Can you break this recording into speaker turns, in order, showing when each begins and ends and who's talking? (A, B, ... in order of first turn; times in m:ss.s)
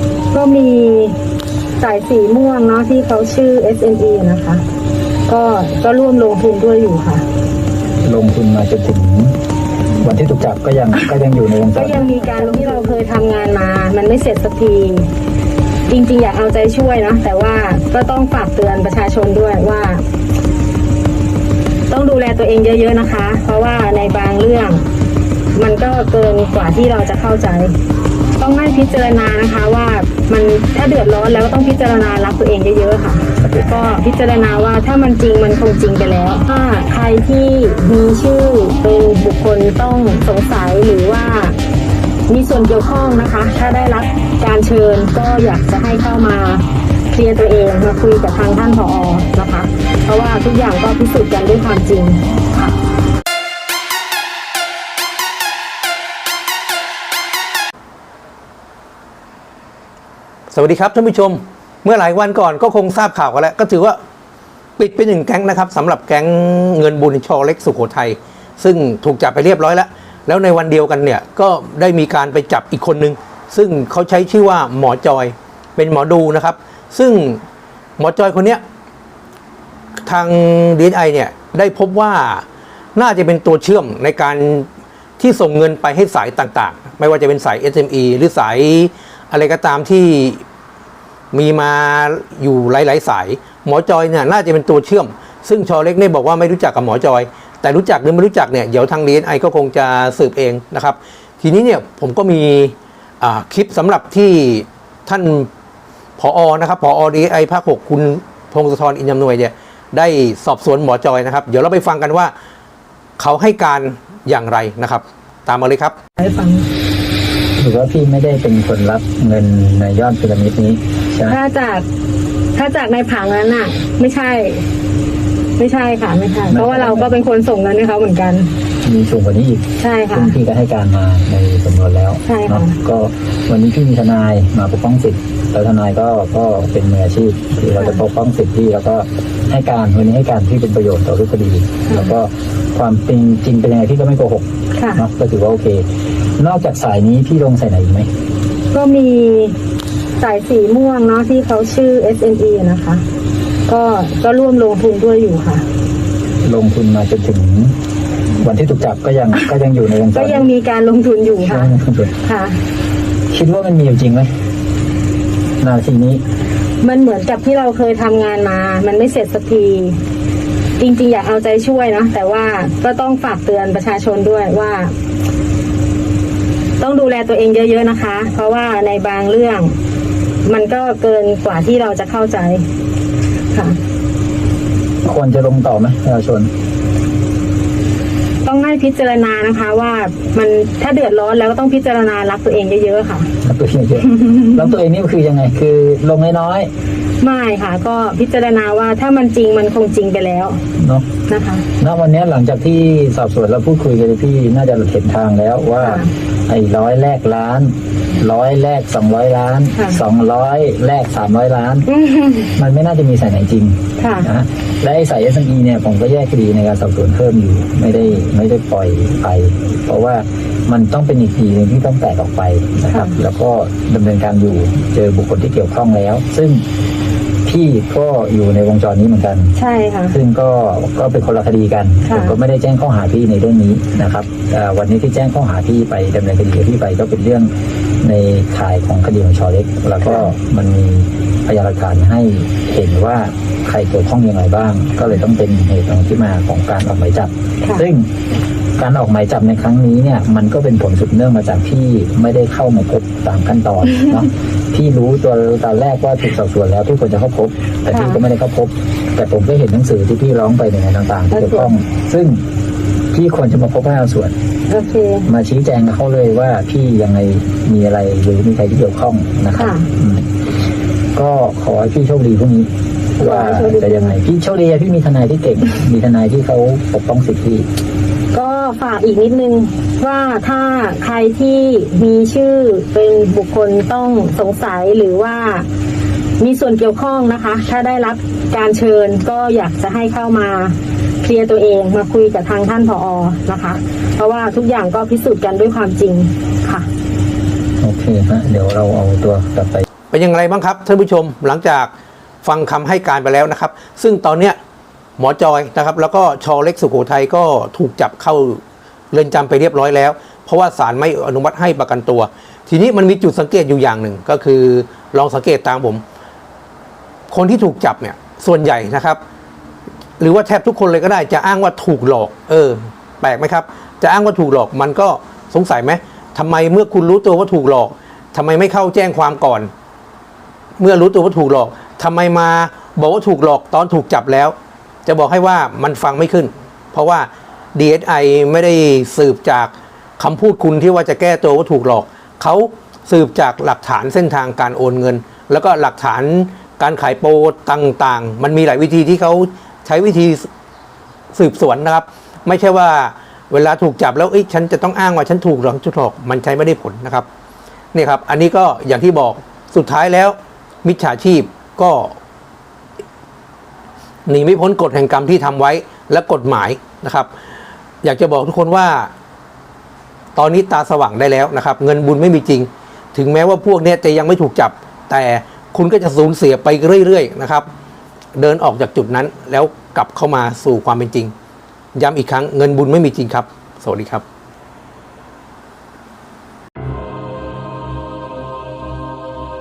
0:00.3-0:01.1 A
0:01.8-0:04.6 A
0:05.3-0:07.2 A
0:08.0-0:09.3 B
0:10.0-0:12.1 B
0:11.7-0:15.1 A
0:15.9-0:20.0 A
0:21.9-0:24.8 A
0:25.5-0:27.8 A
0:28.4-0:41.6 A
0:33.4-0:33.7 B
0:42.3-0:52.7 A
1:00.5-1:04.0 C
1:04.8-1:17.4 C
1:18.0-1:18.6 C
1:20.0-1:24.7 C
1:25.2-1:30.4 C
1:31.3-1:45.5 C
1:46.2-1:52.3 C
1:53.2-1:55.9 C
1:56.2-1:56.6 A
1:57.6-2:01.4 B
2:01.3-2:01.8 A
2:02.6-2:04.6 A
2:05.6-2:08.5 A
2:06.5-2:07.1 B
2:08.8-2:25.8 B
2:09.8-2:10.4 A
2:12.2-2:12.8 A
2:17.8-2:18.0 A
2:21.9-2:22.1 A
2:24.7-2:25.0 A
2:26.4-2:28.1 B
2:28.7-2:29.5 A
2:30.2-2:33.0 A
2:33.7-2:35.6 A
2:36.4-2:37.7 B
2:38.4-2:40.5 B
2:40.1-2:41.7 A
2:41.4-2:42.1 B
2:42.2-2:42.6 A
2:43.3-2:44.3 B
2:45.6-2:46.2 B
2:46.8-2:50.0 A
2:50.8-2:54.9 A
2:56.8-2:59.7 A
3:00.4-3:02.6 A
3:03.5-3:03.8 A
3:05.0-3:06.5 B
3:08.4-3:13.3 A
3:13.4-3:16.7 B
3:17.2-3:20.6 A
3:20.8-3:21.0 B
3:21.3-3:21.7 A
3:21.8-3:31.9 B
3:25.8-3:26.1 A
3:29.7-3:30.0 A
3:31.9-3:32.5 A
3:32.6-3:46.6 B
3:34.0-3:34.3 A
3:42.9-3:43.2 A
3:47.4-3:49.5 B
3:49.6-3:50.2 A
3:50.1-4:08.1 B
3:52.0-3:52.4 A
4:00.0-4:00.3 A
4:08.8-4:22.4 B
4:17.9-4:18.2 A
4:21.3-4:21.7 A
4:23.1-4:24.3 B
4:24.7-4:25.3 A
4:25.3-4:30.3 B
4:29.5-4:29.9 A
4:31.1-4:37.6 B
4:33.2-4:34.2 A
4:38.3-4:45.6 A
4:46.4-4:56.9 A
4:57.8-4:59.8 B
5:00.1-5:01.9 C
5:02.4-5:04.6 C
5:05.2-5:08.6 C
5:09.1-5:16.0 C
5:17.3-5:19.2 C
5:20.2-5:29.7 C
5:30.8-5:34.5 C
5:35.0-5:50.5 C
5:51.3-5:57.2 C
5:57.9-6:02.1 C
6:04.2-6:07.3 C
6:08.0-6:09.1 C
6:10.4-6:17.7 C
6:18.4-6:21.3 C
6:21.9-6:24.2 C